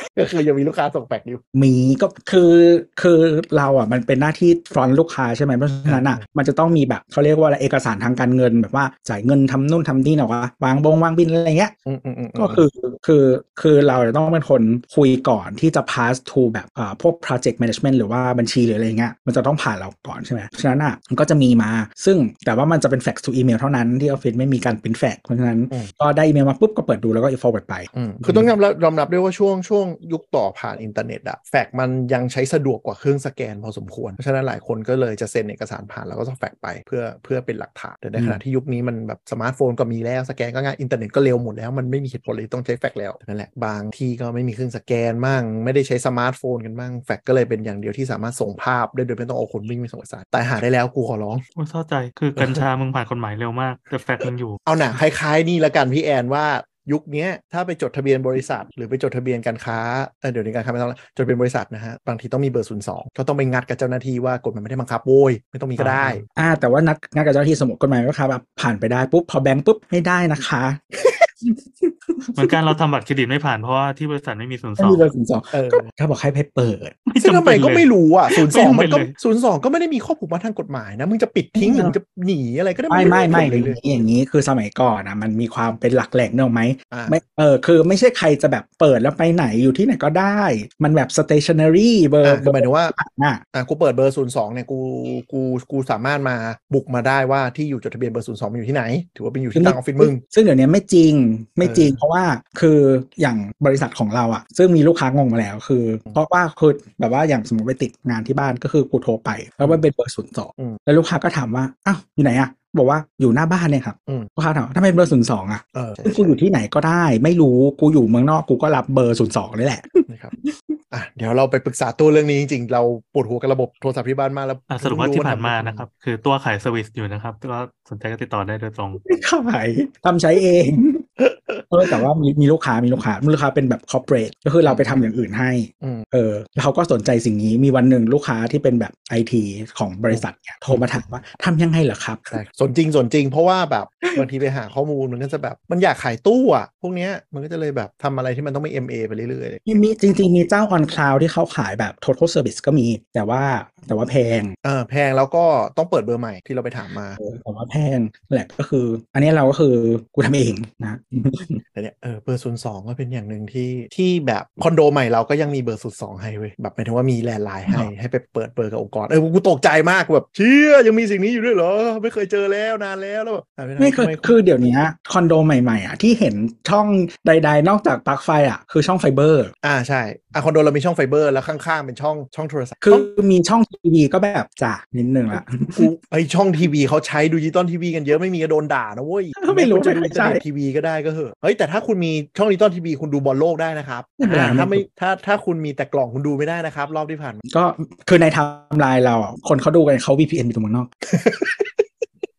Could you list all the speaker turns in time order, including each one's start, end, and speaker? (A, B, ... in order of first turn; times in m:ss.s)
0:00.1-0:01.4 A
0:01.5-0:11.7 B
0:05.8-0:06.2 A
0:11.8-0:12.6 A
0:12.4-0:28.5 B
0:27.9-0:51.4 A
0:51.6-0:54.6 C
0:52.4-0:52.6 A
0:54.6-1:06.2 A
1:05.8-1:06.2 C
1:06.4-1:12.7 B
1:12.4-1:15.0 C
1:14.8-1:17.0 B
1:15.5-1:15.9 A
1:17.1-1:19.1 C
1:17.2-1:23.8 A
1:21.6-1:21.9 B
1:22.9-1:33.4 B
1:26.9-1:27.2 A
1:32.2-1:32.9 A
1:33.5-1:40.2 A
1:39.5-2:00.8 B
1:41.6-1:42.0 A
1:55.7-1:56.4 A
2:00.1-2:00.3 A
2:00.9-2:05.8 A
2:04.7-2:09.0 C
2:09.0-2:11.0 B
2:11.2-2:12.0 A
2:11.7-2:22.3 B
2:14.6-2:15.0 A
2:20.1-2:20.8 A
2:22.3-2:29.6 A
2:29.6-2:34.5 B
2:34.6-2:37.2 A
2:37.2-2:41.6 B
2:41.7-2:54.4 A
2:53.8-2:59.5 B
2:59.6-3:03.1 A
3:02.8-3:05.9 B
3:05.3-3:17.4 A
3:09.4-3:10.4 B
3:14.2-3:14.8 B
3:17.5-3:20.9 B
3:21.1-3:21.8 A